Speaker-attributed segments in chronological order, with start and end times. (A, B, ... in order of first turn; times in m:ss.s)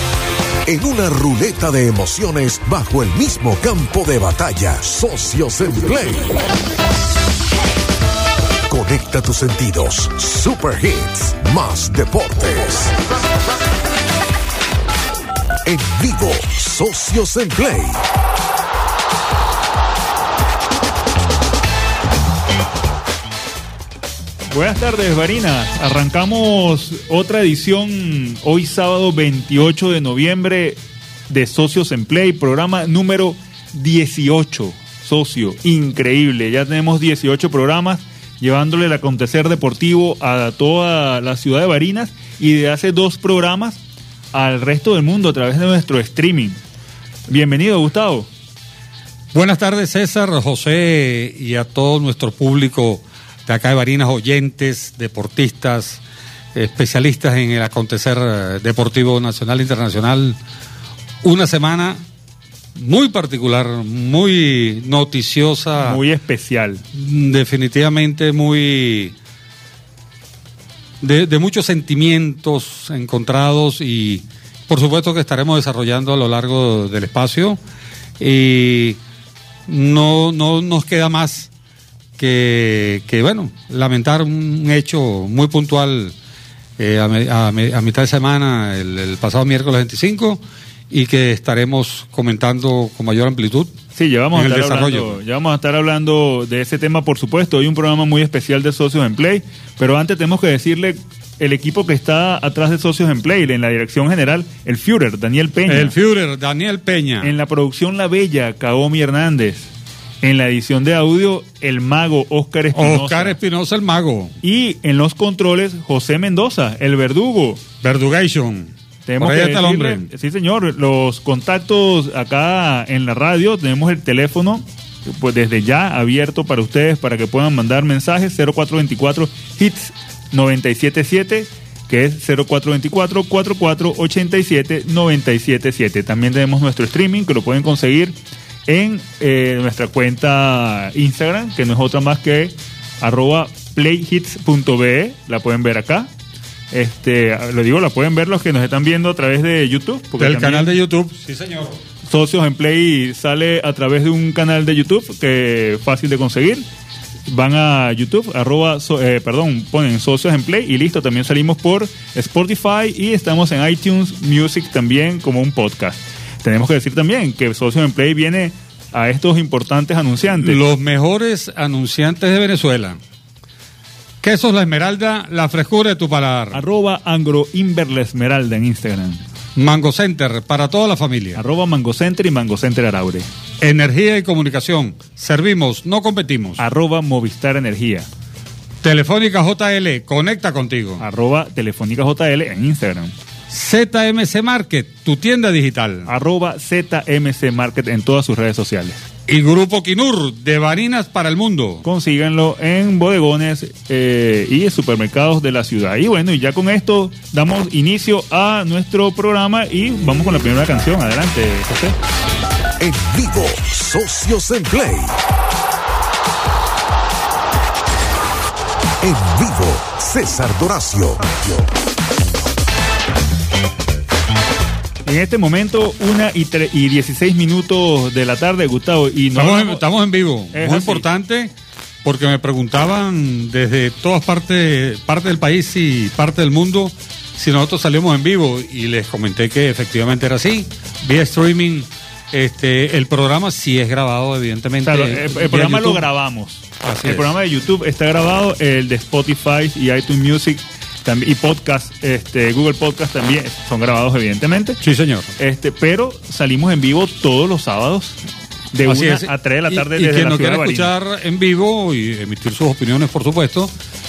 0:00.7-0:06.5 A
0:08.7-0:13.0 A
0:15.6-0:18.0 A
0:24.5-0:43.8 B
0:44.3-0:46.6 B
0:47.3-0:48.3 B
0:49.3-0:56.0 C
0:56.5-1:00.4 C
1:01.2-1:02.0 C
1:02.7-1:06.0 C
1:05.8-1:06.8 B
1:06.9-1:09.1 C
1:11.0-1:17.6 C
1:18.2-1:19.0 C
1:19.7-1:21.5 C
1:22.2-1:26.1 C
1:26.8-1:33.8 C
1:33.9-1:45.9 B
1:34.3-1:35.2 C
1:45.7-1:47.3 C
1:47.2-1:49.7 B
1:50.2-1:53.4 B
1:52.7-1:54.4 C
1:54.4-1:57.6 B
1:57.8-2:00.1 C
1:59.0-2:26.1 B
2:26.7-2:30.7 B
2:30.2-2:31.8 C
2:32.1-2:36.6 B
2:37.3-2:50.6 B
2:50.4-2:53.0 C
2:54.2-2:56.6 C
2:56.5-2:59.2 B
2:59.6-3:01.4 C
3:01.3-3:03.3 B
3:03.6-3:06.6 C
3:06.6-3:08.1 B
3:08.8-3:11.0 C
3:11.0-3:13.1 B
3:13.5-3:16.1 C
3:16.0-3:19.0 B
3:19.3-3:21.8 C
3:21.8-3:32.0 B
3:32.8-3:35.2 A
3:39.0-3:41.7 A
3:45.0-3:49.8 B
3:49.3-4:06.0 C
3:50.5-3:51.0 B
4:04.8-4:14.8 B
4:06.8-4:07.3 C
4:14.8-4:15.3 C
4:15.4-4:18.2 B
4:18.7-4:20.9 B
4:18.8-4:23.7 C